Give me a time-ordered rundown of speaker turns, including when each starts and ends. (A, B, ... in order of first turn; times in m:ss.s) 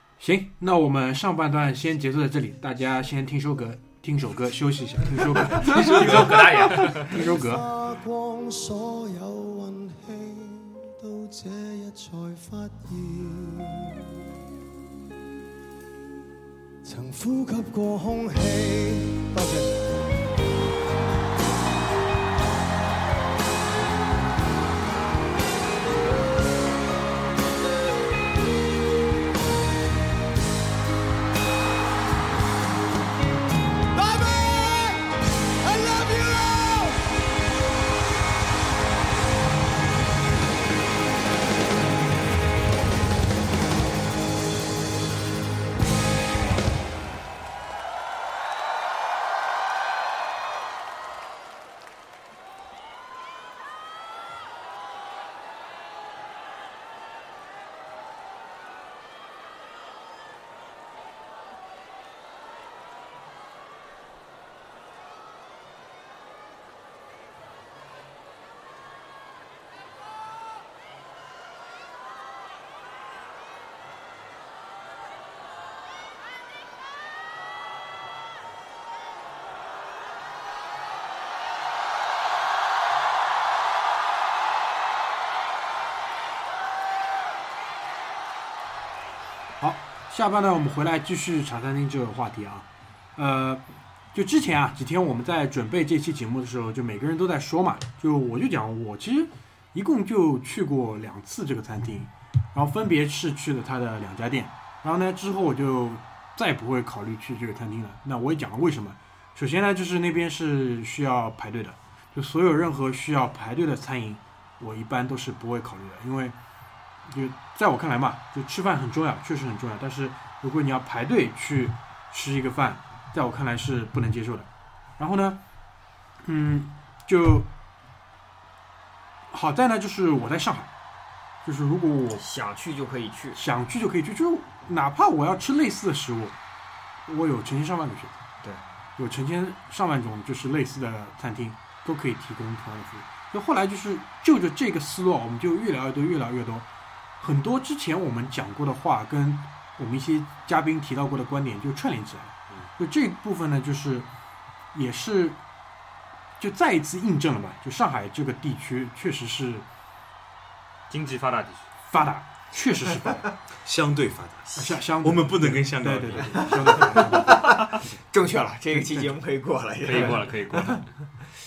0:00.2-0:07.6 A
0:05.4-0:07.1 B
0:06.7-0:14.2 C
0:16.8-0:20.0 C
0:33.9-0:37.2 C
1:29.6-1:56.3 A
1:57.1-2:05.4 A
2:06.2-2:07.5 A
2:09.3-2:10.7 A
2:11.4-2:12.2 A
2:12.2-2:13.4 D
2:13.3-2:16.4 A
2:17.0-2:18.1 A
2:19.0-2:26.6 A
2:27.2-2:34.1 A
2:34.7-2:35.4 A
2:36.4-2:39.6 A
2:40.9-2:41.7 B
2:41.9-2:43.2 A
2:43.6-2:47.2 E
2:44.6-2:47.8 A
2:46.4-2:50.8 D
2:48.8-2:49.0 A
2:49.8-2:50.8 B